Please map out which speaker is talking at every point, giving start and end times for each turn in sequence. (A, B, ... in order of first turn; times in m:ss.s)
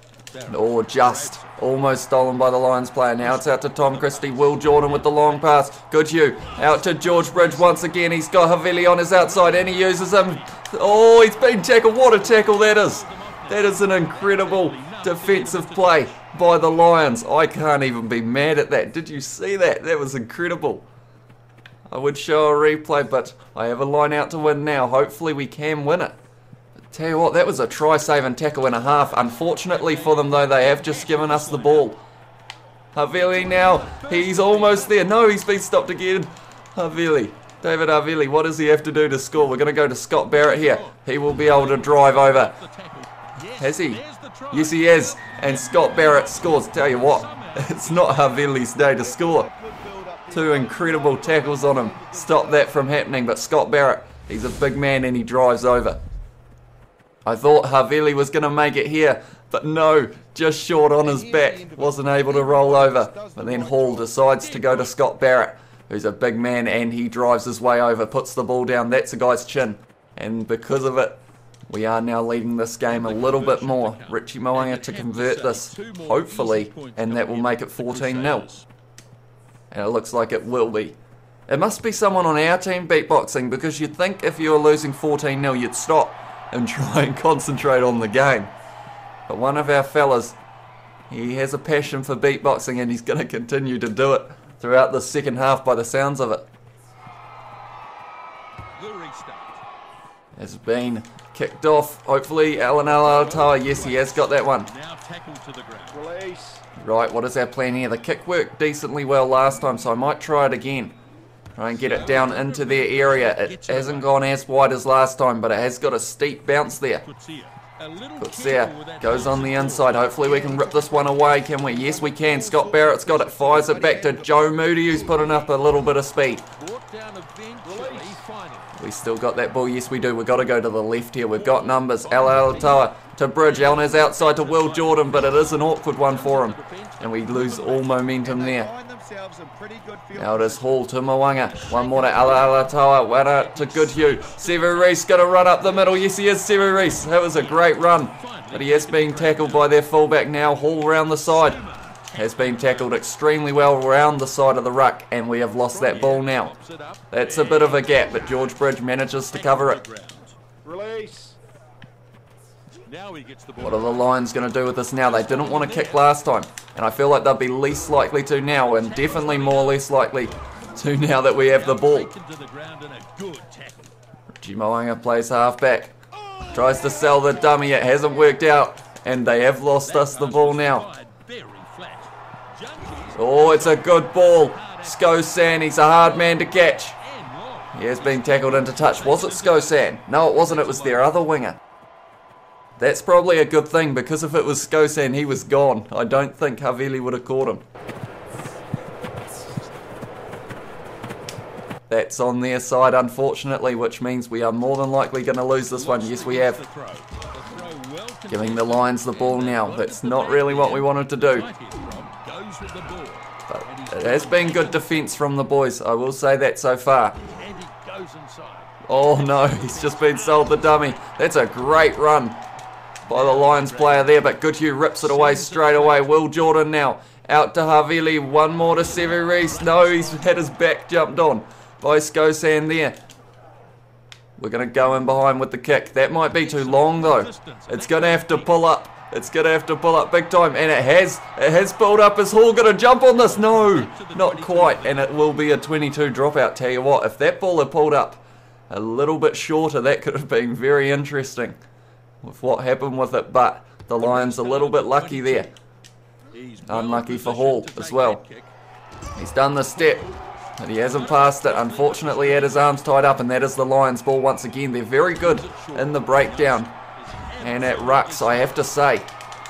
0:00.3-0:01.6 A
0:00.5-0:20.9 B
0:03.2-0:05.4 A
0:06.8-0:07.8 A
0:09.2-0:10.2 A
0:12.0-0:16.1 A
0:21.9-0:26.2 B
0:26.9-0:32.0 B
0:29.9-0:31.9 A
0:32.9-0:42.6 B
0:33.8-0:35.0 A
0:40.3-0:48.4 A
0:43.6-0:49.5 B
0:49.0-0:52.7 C
0:50.3-0:56.0 B
0:57.2-1:18.5 B
1:01.1-1:04.1 C
1:04.3-1:04.9 A
1:12.9-1:18.6 A
1:19.7-1:21.0 B
1:21.5-1:28.5 B
1:29.3-1:30.4 B
1:31.1-1:36.5 B
1:38.8-1:39.6 A
1:40.4-1:44.7 B
1:42.8-1:46.1 A
1:45.9-1:46.6 C
1:46.8-1:51.0 B
1:51.6-1:57.0 B
1:51.7-1:54.1 A
1:57.0-2:00.1 A
1:58.2-2:06.5 B
2:00.2-2:05.3 C
2:06.6-2:08.7 A
2:07.6-2:08.2 C
2:08.8-2:18.7 B
2:11.4-2:18.0 A
2:18.2-2:20.6 C
2:20.1-2:36.5 B
2:23.3-2:25.0 A
2:27.3-2:27.6 A
2:28.1-2:29.7 A
2:31.3-2:32.9 A
2:35.7-2:37.9 A
2:37.1-2:39.8 B
2:39.3-2:40.3 A
2:40.6-2:41.4 C
2:42.8-2:44.1 A
2:43.6-2:52.1 B
2:45.1-2:46.1 A
2:48.7-2:49.8 A
2:51.5-2:53.9 A
2:54.4-2:56.0 B
2:56.5-3:00.9 B
2:59.8-3:05.2 A
3:03.1-3:07.0 B
3:06.0-3:11.1 A
3:07.7-3:11.6 B
3:12.8-3:17.6 B
3:21.9-3:26.6 B
3:25.7-3:35.1 A
3:28.3-3:31.5 B
3:33.5-3:37.2 B
3:37.3-3:40.6 A
3:38.8-3:42.4 B
3:43.0-3:53.0 B
3:43.1-3:44.2 A
3:45.0-3:46.2 A
3:49.1-3:50.3 A
3:54.4-4:11.6 B
3:56.4-3:58.5 A
4:03.1-4:05.1 A
4:12.2-4:15.5 B
4:14.0-4:15.4 A
4:16.3-4:18.5 A
4:16.6-4:18.2 B
4:19.2-4:26.7 B
4:20.9-4:22.8 A
4:25.3-4:28.6 A
4:27.4-4:29.1 B